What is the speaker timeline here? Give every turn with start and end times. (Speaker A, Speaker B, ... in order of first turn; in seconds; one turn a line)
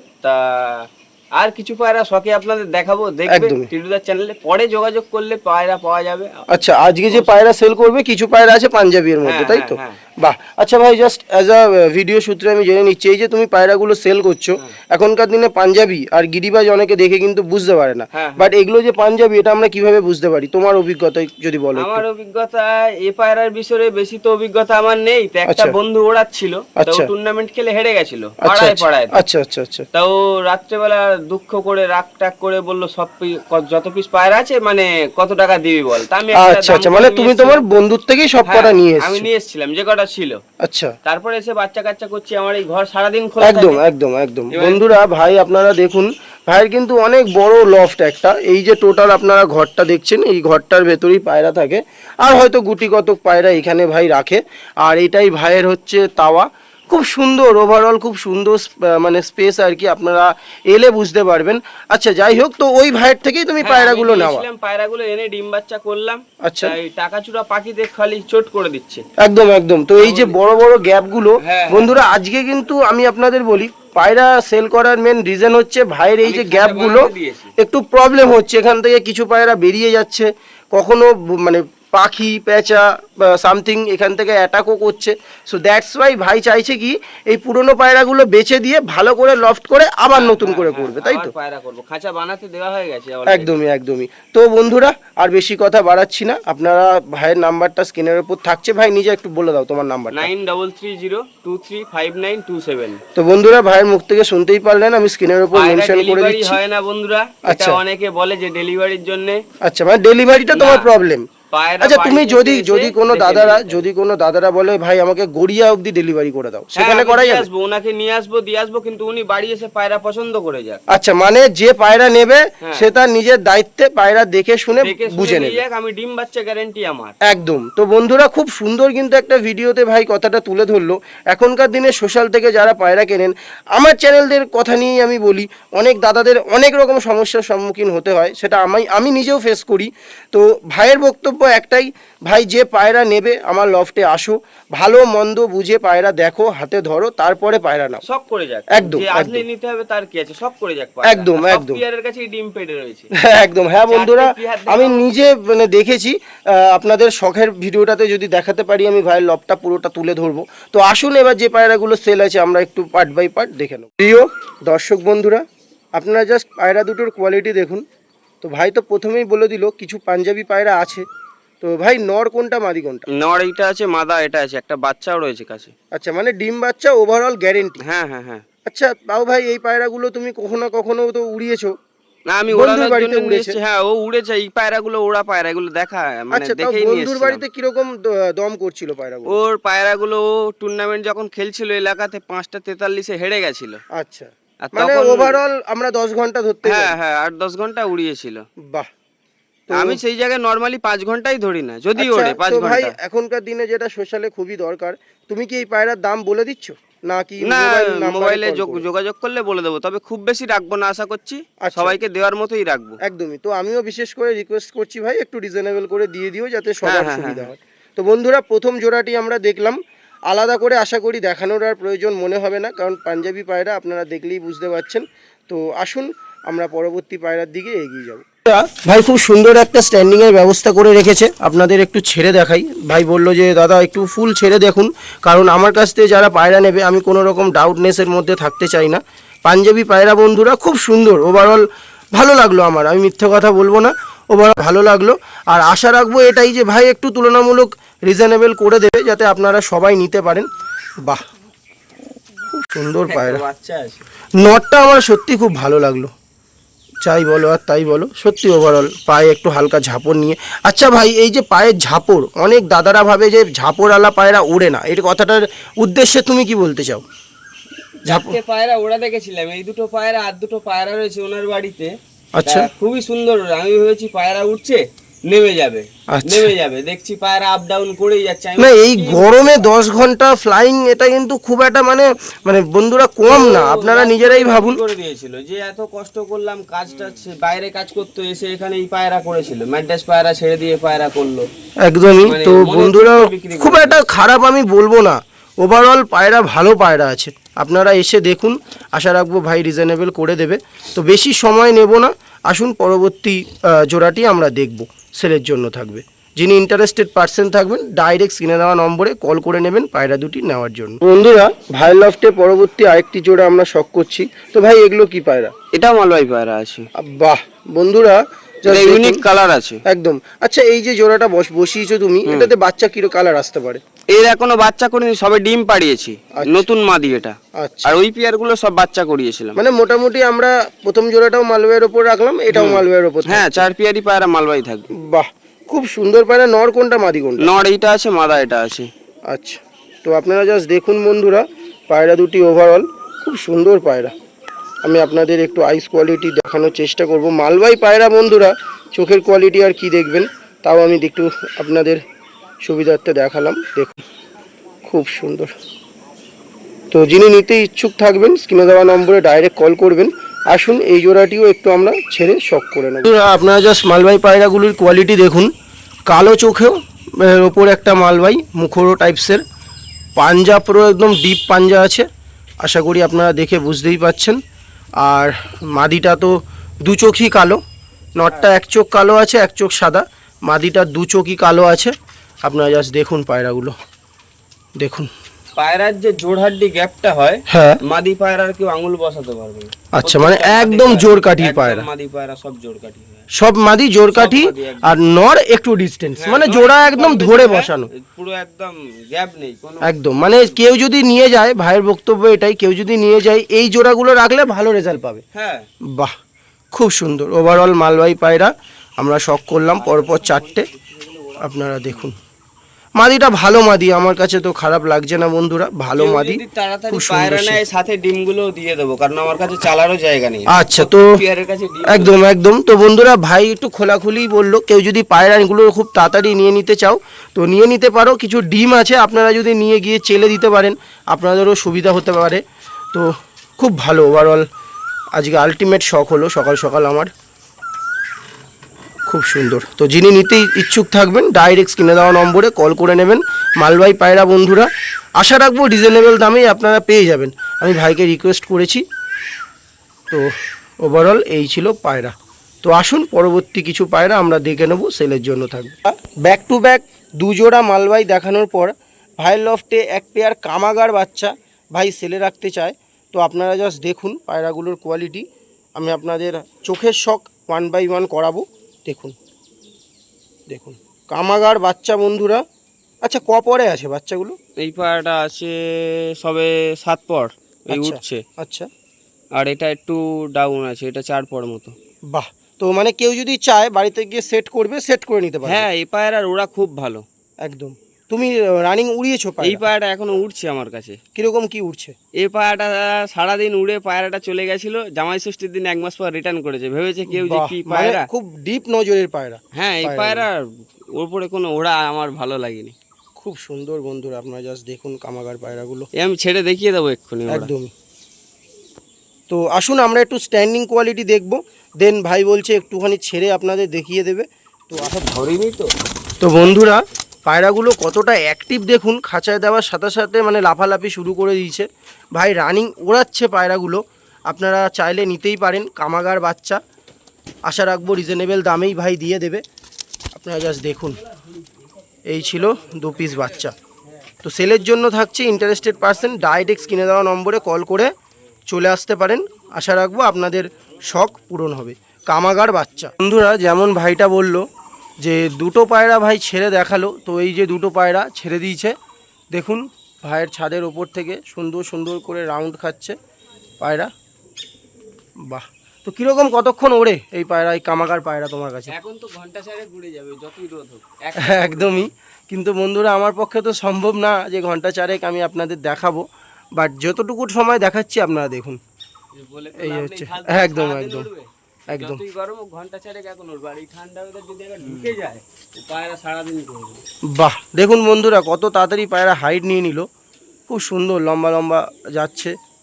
Speaker A: 0.2-6.4
Speaker B: 3.3-3.7
Speaker B: 6.5-22.0
Speaker A: 7.1-7.4
Speaker A: 9.2-10.0
Speaker A: 18.1-18.5
Speaker A: 21.7-29.2
Speaker B: 25.4-25.8
Speaker B: 26.8-27.1
Speaker B: 28.4-29.9
Speaker A: 29.9-37.6
Speaker B: 36.4-39.3
Speaker A: 38.5-40.4
Speaker B: 40.6-40.9
Speaker A: 41.0-43.8
Speaker B: 43.4-64.4
Speaker A: 44.5-44.8
Speaker A: 63.6-69.0
Speaker B: 66.4-66.7
Speaker B: 69.2-91.3
Speaker A: 70.0-70.3
Speaker A: 71.4-72.0
Speaker A: 76.2-77.5
Speaker A: 90.1-93.5
Speaker B: 93.3-100.3
Speaker A: 100.1-103.0
Speaker B: 103.1-106.6
Speaker A: 105.5-109.4
Speaker B: 107.5-107.8
Speaker B: 109.6-111.2
Speaker A: 110.5-110.9
Speaker A: 111.5-113.9
Speaker B: 111.8-117.5
Speaker A: 116.8-120.8
Speaker B: 120.9-125.6
Speaker A: 122.6-122.9
Speaker A: 124.8-127.1
Speaker B: 127.2-148.0
Speaker A: 148.0-153.1
Speaker B: 148.7-149.4
Speaker B: 151.0-151.8
Speaker B: 153.2-165.4
Speaker A: 153.9-155.0
Speaker B: 165.9-167.8
Speaker B: 168.4-171.1
Speaker B: 171.6-173.1
Speaker A: 173.1-175.7
Speaker B: 175.9-177.8
Speaker A: 177.8-178.4
Speaker B: 178.7-181.7
Speaker A: 182.3-187.4
Speaker B: 182.5-183.6
Speaker B: 186.3-189.4
Speaker A: 189.3-193.8
Speaker B: 193.9-196.9
Speaker A: 194.6-195.4
Speaker A: 196.6-198.4
Speaker B: 199.7-200.0
Speaker A: 199.7-202.9
Speaker B: 202.0-208.8
Speaker A: 207.4-213.0
Speaker B: 211.6-212.0
Speaker B: 213.0-250.5
Speaker A: 216.8-217.5
Speaker B: 252.5-253.4
Speaker A: 253.1-254.0
Speaker B: 254.4-256.1
Speaker B: 257.0-267.0
Speaker B: 268.1-268.4
Speaker A: 268.1-271.9
Speaker B: 272.3-272.7
Speaker A: 272.4-279.7
Speaker B: 276.1-276.5
Speaker B: 278.6-284.8
Speaker A: 283.3-291.5
Speaker B: 291.8-315.5
Speaker A: 292.2-294.0
Speaker A: 315.7-316.9
Speaker B: 316.9-319.2
Speaker A: 318.6-319.8
Speaker B: 319.9-323.8
Speaker A: 322.2-322.5
Speaker A: 324.1-329.6
Speaker B: 326.3-326.7
Speaker B: 327.6-328.0
Speaker B: 329.6-333.7
Speaker A: 332.5-334.9
Speaker B: 335.0-337.5
Speaker A: 337.4-338.9
Speaker B: 339.3-344.1
Speaker B: 344.8-352.0
Speaker B: 352.6-354.0
Speaker B: 354.9-355.5
Speaker B: 356.9-365.5
Speaker B: 366.1-369.4
Speaker B: 370.1-372.1
Speaker B: 372.6-374.4
Speaker B: 375.0-377.6
Speaker B: 378.2-381.9
Speaker B: 382.4-383.7
Speaker B: 384.8-385.1
Speaker A: 385.6-393.3
Speaker B: 387.5-387.8
Speaker B: 389.9-391.9
Speaker B: 393.3-397.9
Speaker A: 394.1-394.9
Speaker A: 396.2-400.4
Speaker B: 399.8-405.2
Speaker A: 405.3-405.7
Speaker B: 405.8-406.1
Speaker B: 406.7-410.7
Speaker A: 409.8-412.0
Speaker B: 411.4-412.1
Speaker B: 413.0-417.6
Speaker A: 415.9-422.1
Speaker B: 420.5-421.1
Speaker B: 421.9-434.4
Speaker B: 435.1-437.1
Speaker B: 439.1-448.8
Speaker B: 450.8-465.2
Speaker B: 465.8-469.1
Speaker B: 470.5-472.4
Speaker B: 473.0-474.4
Speaker A: 474.6-478.2
Speaker B: 477.7-478.7
Speaker A: 479.4-481.7
Speaker B: 482.1-485.6
Speaker A: 485.4-487.0
Speaker B: 487.4-489.6
Speaker A: 489.4-491.0
Speaker B: 491.1-491.9
Speaker A: 492.2-498.1
Speaker B: 497.1-500.2
Speaker A: 499.6-502.8
Speaker B: 503.2-505.9
Speaker A: 505.9-507.5
Speaker B: 507.3-507.7
Speaker B: 509.3-514.9
Speaker A: 514.8-515.7
Speaker B: 516.2-526.6
Speaker B: 527.5-529.4
Speaker B: 530.1-531.0
Speaker B: 532.1-533.5
Speaker B: 534.2-537.9
Speaker B: 538.5-544.4
Speaker B: 545.0-548.7
Speaker B: 549.3-553.0
Speaker B: 553.6-553.9
Speaker B: 555.3-558.7
Speaker A: 558.7-561.9
Speaker B: 561.2-566.0
Speaker B: 566.6-568.6
Speaker A: 569.1-576.8
Speaker B: 569.6-571.1
Speaker B: 571.7-572.0
Speaker B: 577.1-579.9
Speaker B: 580.5-582.3